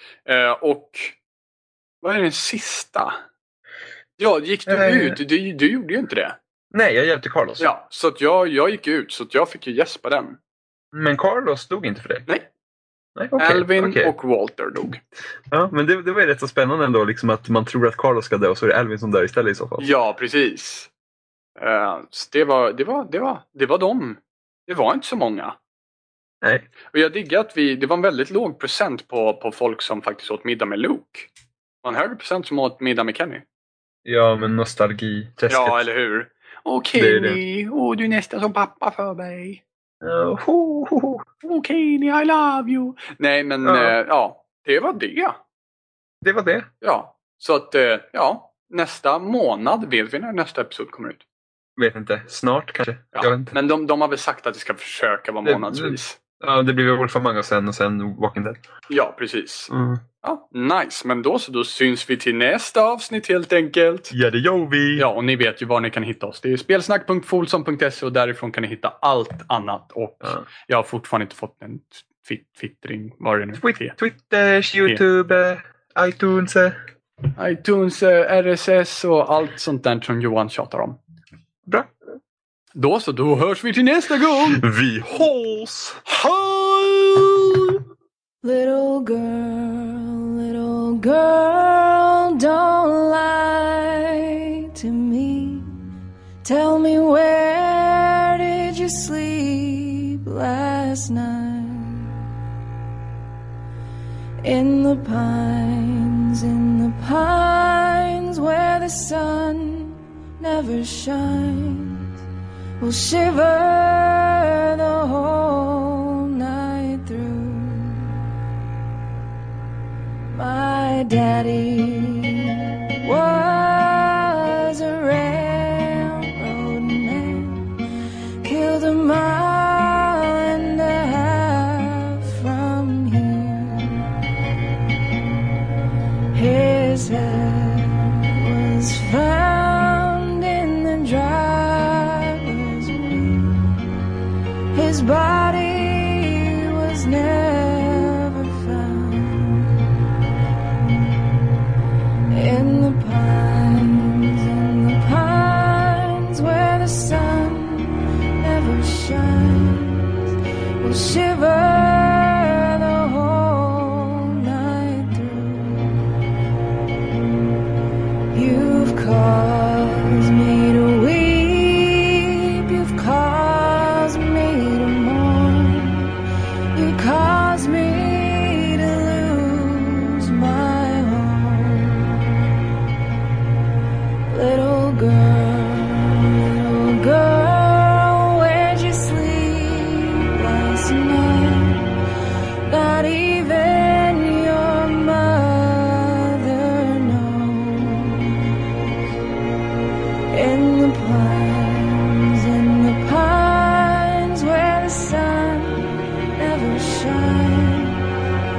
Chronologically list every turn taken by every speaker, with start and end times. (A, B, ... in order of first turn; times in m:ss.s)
0:00.2-0:01.2 A
0:02.0-0:03.2 A
0:04.2-0:06.4 A
0:04.7-0:05.2 B
0:06.7-0:07.7 B
0:07.6-0:10.4 A
0:10.9-0:12.2 B
0:13.2-0:14.1 B
0:13.4-0:15.0 A
0:15.5-0:19.9 B
0:19.8-0:20.9 A
0:21.6-0:25.6 A
0:26.9-0:31.3 A
0:31.8-0:33.4 A
0:34.0-0:35.8 B
0:35.5-0:39.6 A
0:37.0-0:37.4 B
0:40.0-0:41.3 B
0:41.4-0:45.4 A
0:43.6-0:43.9 B
0:46.2-0:46.7 B
0:46.8-0:51.2 A
0:51.8-0:53.5 B
0:53.1-0:56.2 A
0:55.4-0:58.6 B
0:58.9-1:04.1 A
0:59.7-1:00.0 B
1:04.1-1:05.0 B
1:05.0-1:13.9 A
1:13.6-1:16.8 B
1:17.4-1:21.0 A
1:22.7-1:24.6 A
1:24.6-1:27.4 B
1:28.4-1:35.8 C
1:36.4-1:42.1 C
1:44.4-1:52.1 C
1:52.8-1:58.2 C
2:00.3-2:07.7 C
2:08.4-2:14.1 C
2:16.3-2:23.8 C
2:24.7-2:29.8 C
2:32.3-2:40.3 C
2:40.8-2:46.1 C
2:48.3-2:56.2 C
2:56.7-3:02.4 C
3:04.3-3:12.0 C
3:12.7-3:18.5 C
3:20.3-3:28.1 C